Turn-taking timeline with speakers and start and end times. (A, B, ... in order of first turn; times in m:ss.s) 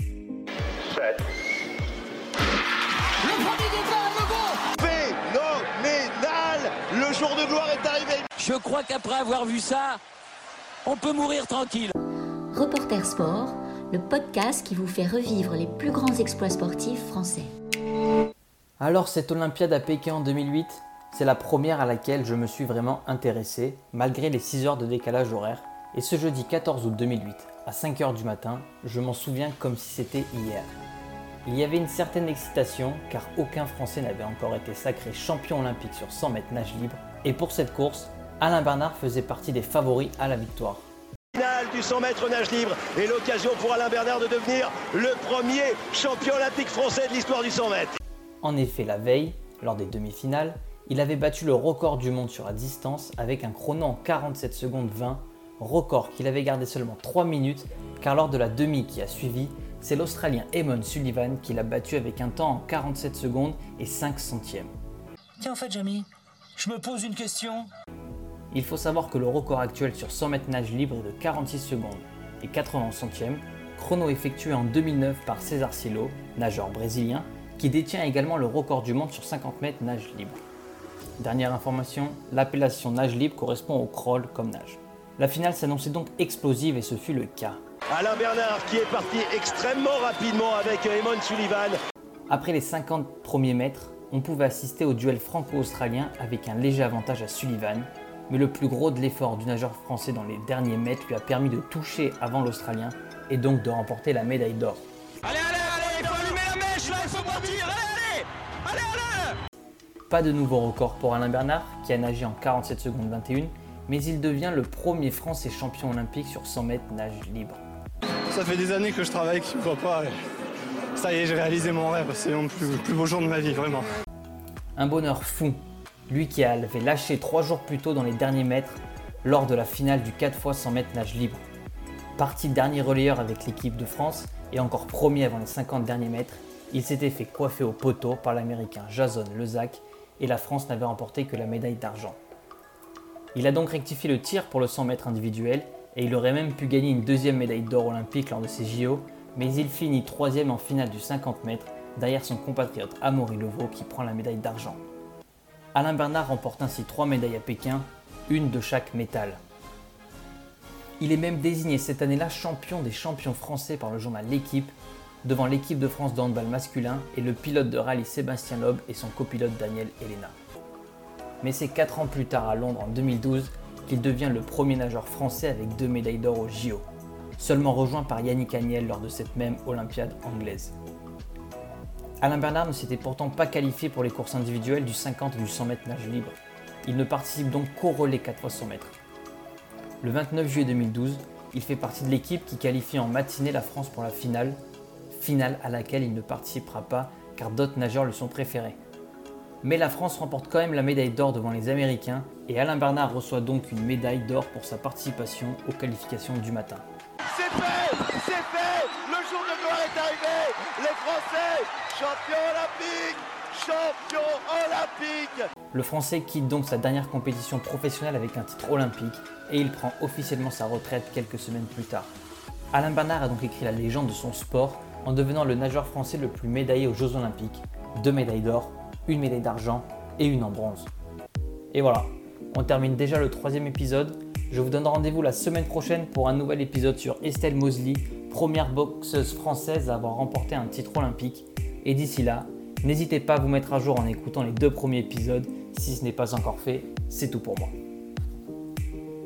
0:03.2-0:04.6 A
0:04.8-0:08.2 B
0:08.4-0:10.0 A
0:10.8-0:11.9 A
0:12.5-0:17.5 C
0:18.8-0:30.7 D
0:31.4-0:40.9 D
0:41.3-0:48.0 B
0:48.4-1:04.7 D
1:05.4-1:07.7 E
1:08.5-1:20.4 D
1:21.2-1:27.6 D
1:27.9-1:31.8 B
1:32.3-1:44.8 D
1:45.2-1:49.4 A
1:50.1-1:57.6 D
1:58.3-2:00.2 F
2:00.9-2:04.0 F
2:04.8-2:11.4 D
2:12.2-2:22.2 D
2:23.3-2:34.8 D
2:35.7-2:39.4 D
2:41.0-2:44.7 D
2:45.2-2:50.3 D
2:51.4-2:56.8 D
2:57.4-3:00.7 D
3:02.2-3:08.9 D
3:10.0-3:14.6 D
3:15.1-3:18.8 D
3:19.6-3:26.8 D
3:27.3-3:35.4 B
3:35.7-3:42.1 D
3:42.7-3:50.9 D
3:51.7-4:07.7 D